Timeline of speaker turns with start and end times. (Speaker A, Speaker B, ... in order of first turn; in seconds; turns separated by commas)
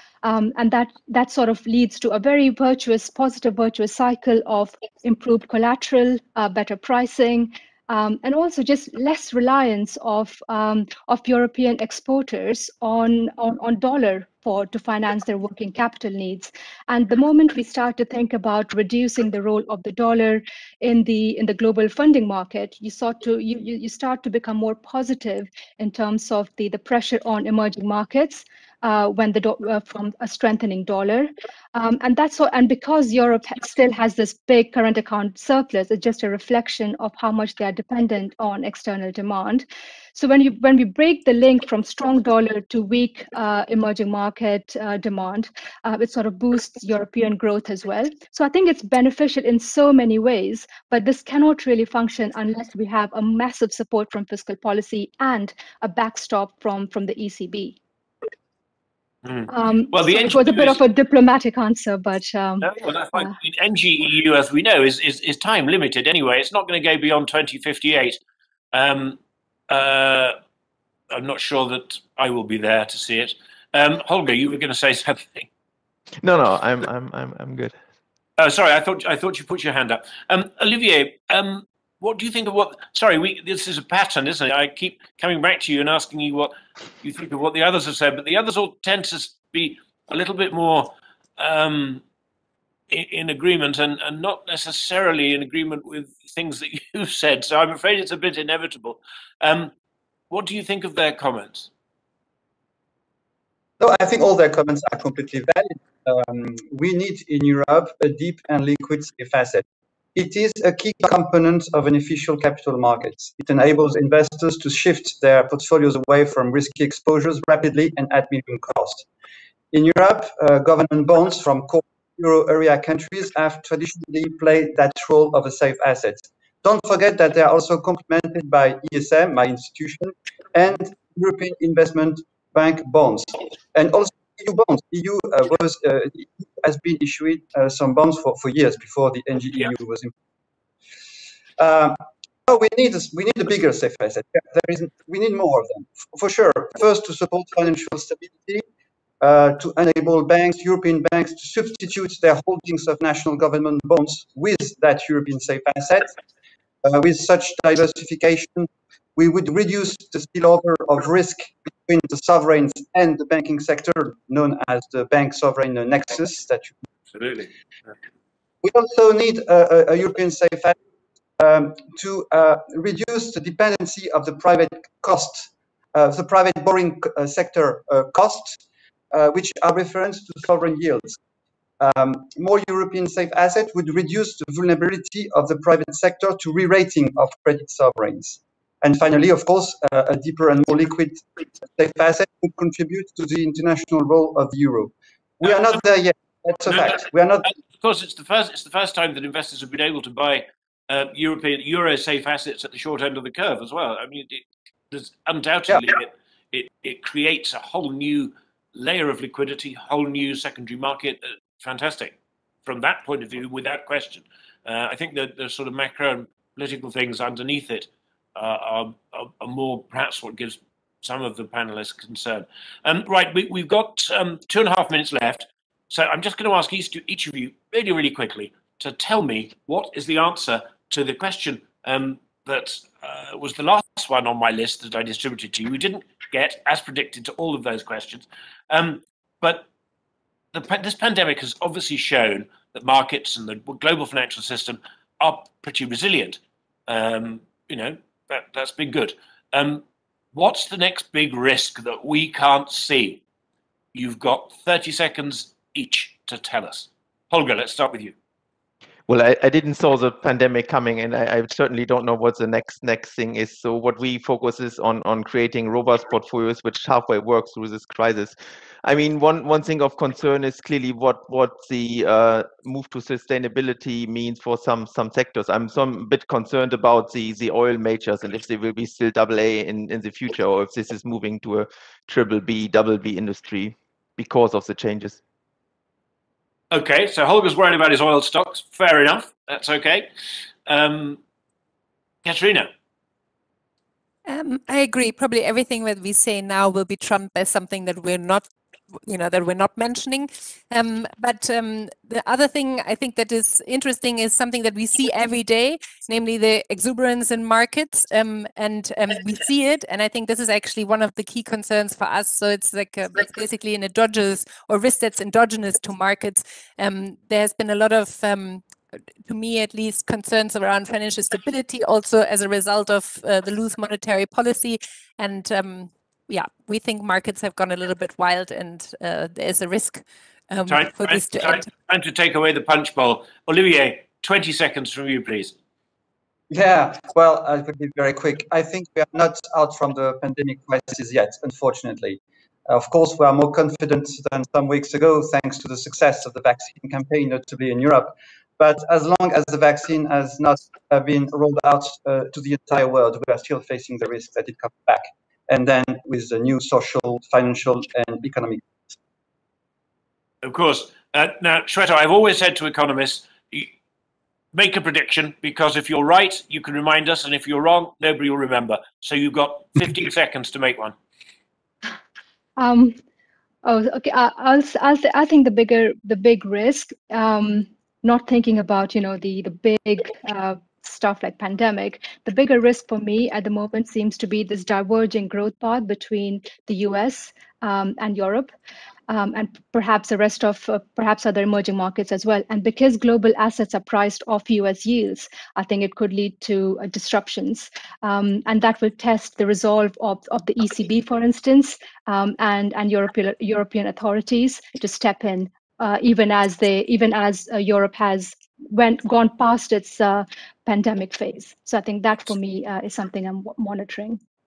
Speaker A: 0.2-57.8, Speaker B: 59.2-60.8, Speaker A: 59.5-63.3, Speaker B: 62.6-68.2, Speaker B: 68.7-69.2, Speaker B: 69.7-70.3, Speaker B: 71.1-75.5, Speaker C: 76.2-77.8, Speaker B: 78.4-92.0, Speaker B: 92.9-99.7, Speaker B: 100.3-101.7, Speaker D: 103.8-119.1, Speaker D: 119.7-140.1, Speaker D: 141.6-148.6, Speaker D: 149.2-156.1, Speaker D: 156.8-166.7, Speaker B: 167.1-167.5, Speaker D: 168.6-170.8, Speaker D: 171.4-178.6, Speaker D: 179.1-181.2, Speaker D: 181.8-197.5, Speaker B: 197.5-212.1, Speaker B: 212.6-239.7, Speaker B: 240.5-253.2, Speaker B: 253.9-258.1, Speaker C: 259.1-285.2, Speaker B: 286.7-290.1, Speaker B: 290.7-291.2, Speaker B: 292.2-292.7, Speaker E: 294.3-298.4, Speaker E: 299.1-318.6, Speaker E: 319.2-331.7, Speaker B: 330.7-335.5, Speaker D: 336.5-358.7, Speaker B: 360.4-363.7, Speaker B: 364.5-370.9, Speaker A: 372.6-372.9, Speaker A: 373.6-388.5, Speaker A: 389.1-414.2